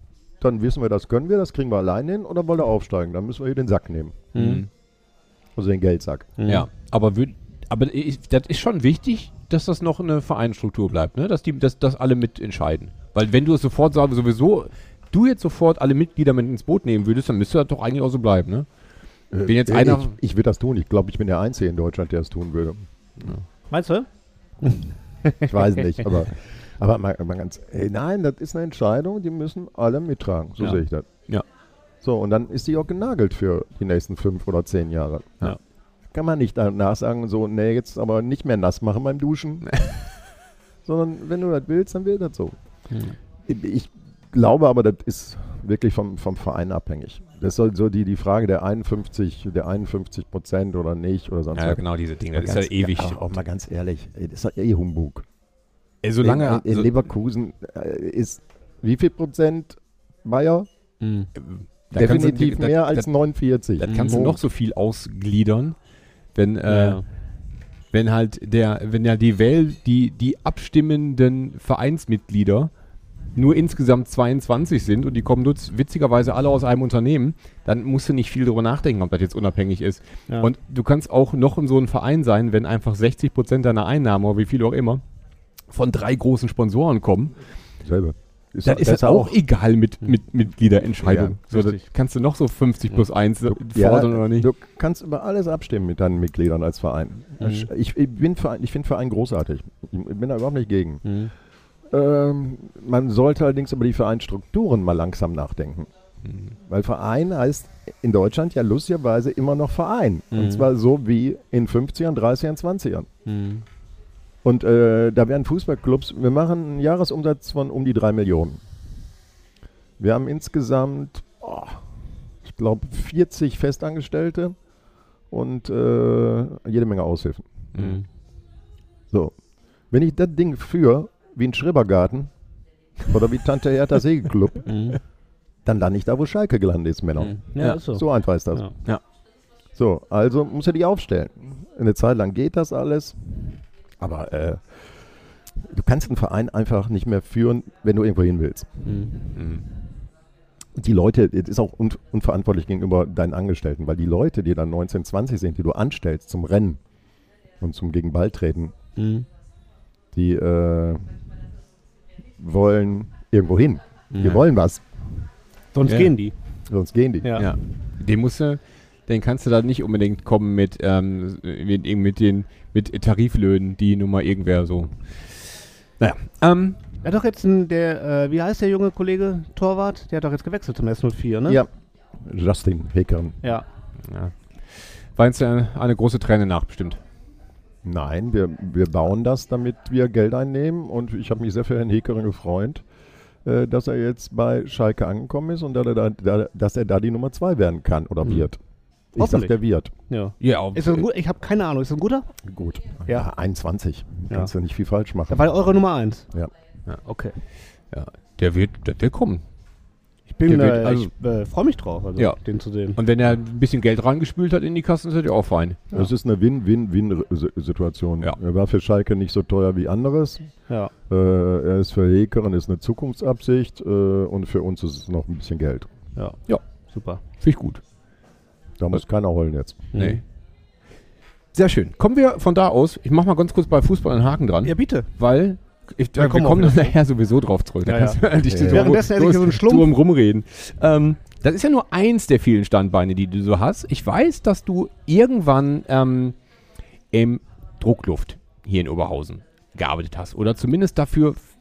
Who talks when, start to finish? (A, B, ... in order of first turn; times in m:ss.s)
0:00.4-0:04.3 A
0:04.3-0:04.6 B
0:04.3-0:04.7 C
0:05.6-0:06.3 A
0:06.4-0:06.7 B
0:06.5-0:18.7 C
0:19.3-0:22.8 A
0:19.3-0:20.2 C
0:23.7-0:24.1 B
0:24.6-0:25.7 B
0:25.4-0:31.1 A
0:32.0-0:35.6 A
0:36.1-0:39.8 A
0:40.8-0:42.6 A
0:43.4-0:55.2 A
0:51.5-0:53.4 C
0:56.0-0:56.9 C
0:56.2-1:00.7 A
1:01.0-1:01.3 B
1:01.4-1:03.0 C
1:01.9-1:04.4 A
1:03.8-1:05.8 C
1:03.8-1:04.3 B
1:06.3-1:07.0 C
1:06.7-1:07.0 B
1:07.9-1:12.7 C
1:13.3-1:25.0 C
1:25.7-1:27.3 C
1:27.8-1:29.4 A
1:28.6-1:34.5 C
1:31.0-1:31.6 A
1:33.5-1:41.0 A
1:37.4-1:37.7 B
1:41.0-1:41.3 B
1:41.9-1:45.9 A
1:46.6-1:53.1 A
1:50.3-1:50.7 B
1:53.2-1:53.6 B
1:54.4-1:58.6 A
2:00.0-2:01.8 A
2:02.4-2:04.6 A
2:05.3-2:07.4 A
2:07.7-2:08.0 C
2:07.8-2:08.0 B
2:09.9-2:12.3 A
2:13.0-2:14.8 A
2:14.6-2:15.0 B
2:15.6-2:18.7 A
2:17.2-2:18.7 B
2:19.8-2:24.6 A
2:25.6-2:28.9 A
2:28.8-2:29.1 B
2:29.3-2:29.6 C
2:30.8-2:36.8 A
2:37.6-2:38.7 A
2:39.0-2:39.3 B
2:40.1-2:41.1 A
2:42.4-2:44.8 A
2:44.1-2:44.4 B
2:45.7-2:46.3 B
2:45.9-2:46.1 C
2:46.7-2:47.4 A
2:47.2-2:47.5 B
2:47.4-2:56.8 C
2:57.0-3:01.6 B
3:02.2-3:03.4 A
3:05.2-3:07.0 C
3:07.8-3:12.8 A
3:13.4-3:18.6 A
3:19.1-3:19.9 A
3:19.2-3:19.6 B
3:20.1-3:22.3 B
3:20.4-3:21.0 C
3:22.4-3:25.5 A
3:25.3-3:26.3 B
3:27.0-3:27.4 B
3:27.9-3:29.4 C
3:30.3-3:33.0 B
3:30.5-3:31.1 C
3:33.0-3:36.0 C
3:35.9-3:40.5 A
3:41.1-3:45.9 A
3:46.9-3:47.2 B
3:47.3-3:47.8 C
3:48.8-3:49.9 A
3:49.9-3:50.2 B
3:49.9-3:50.2 C
3:51.5-4:06.4 C
3:54.6-3:55.1 B
3:56.2-3:57.0 B
3:57.8-3:59.9 B
3:58.4-3:59.0 A
4:07.1-4:11.4 C